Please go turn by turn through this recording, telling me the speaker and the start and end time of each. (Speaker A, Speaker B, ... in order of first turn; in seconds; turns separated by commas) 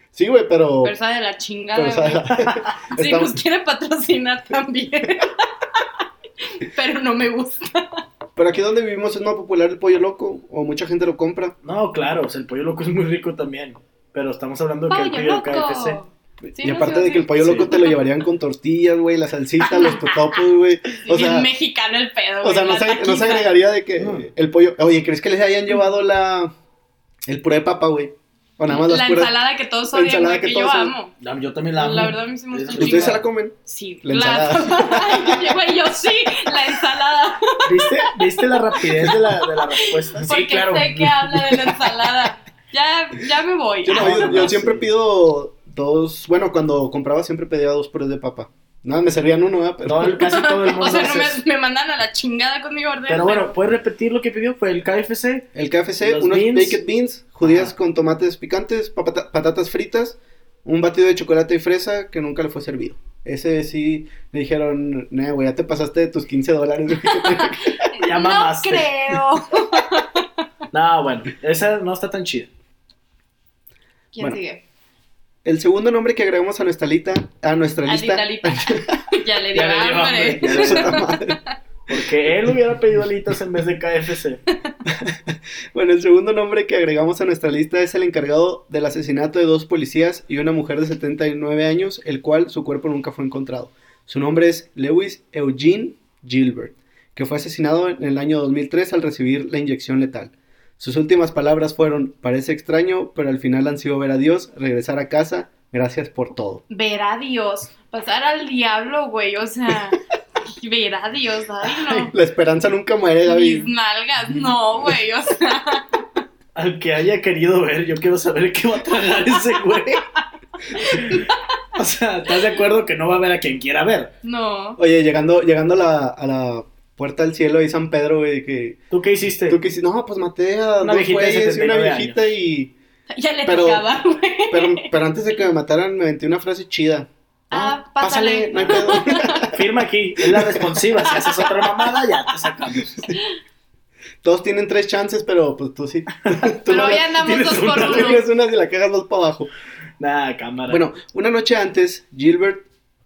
Speaker A: 0.1-0.9, Speaker B: 0.8-2.4, Speaker A: 1.7-3.4, Speaker C: 2.4-2.7, Speaker B: 2.9-5.8, Speaker B: 6.4-8.0, Speaker A: 8.3-11.5, Speaker C: 11.6-16.0, Speaker B: 14.9-17.9, Speaker A: 16.4-21.5, Speaker C: 17.4-17.7, Speaker B: 19.7-20.1, Speaker B: 21.0-23.5, Speaker A: 22.4-26.5, Speaker C: 24.0-24.3, Speaker A: 27.2-29.3, Speaker B: 28.7-31.1, Speaker A: 29.9-30.9, Speaker C: 31.2-33.2, Speaker B: 31.8-38.1, Speaker A: 32.7-35.6, Speaker C: 37.6-41.3, Speaker B: 38.8-44.5, Speaker A: 43.8-50.2, Speaker C: 43.9-44.8, Speaker C: 49.8-51.4, Speaker B: 50.2-53.5, Speaker C: 53.1-55.5, Speaker A: 55.5-67.7, Speaker C: 56.0-56.8, Speaker C: 57.4-57.7, Speaker B: 67.2-70.4, Speaker C: 68.0-69.2, Speaker C: 70.7-72.5, Speaker B: 74.1-74.6, Speaker A: 75.4-78.9, Speaker B: 77.9-81.5, Speaker C: 79.5-81.1, Speaker A: 80.4-81.4, Speaker C: 81.9-84.4, Speaker A: 84.9-106.6, Speaker B: 106.7-112.1, Speaker A: 112.1-113.7, Speaker B: 113.2-116.2, Speaker C: 116.5-120.0, Speaker B: 120.7-121.4, Speaker C: 120.9-121.2, Speaker C: 121.8-124.1, Speaker B: 124.2-124.8, Speaker A: 124.8-128.8, Speaker C: 128.9-129.6, Speaker A: 129.5-132.7, Speaker C: 130.8-132.3, Speaker B: 133.1-134.9, Speaker A: 133.4-133.9, Speaker A: 134.5-139.6, Speaker B: 137.5-139.5, Speaker C: 138.5-143.1, Speaker A: 140.3-140.8, Speaker B: 141.0-141.9, Speaker A: 144.2-147.1, Speaker C: 146.3-148.2, Speaker B: 146.7-148.2, Speaker A: 147.8-149.5, Speaker C: 150.0-150.8, Speaker A: 150.7-152.7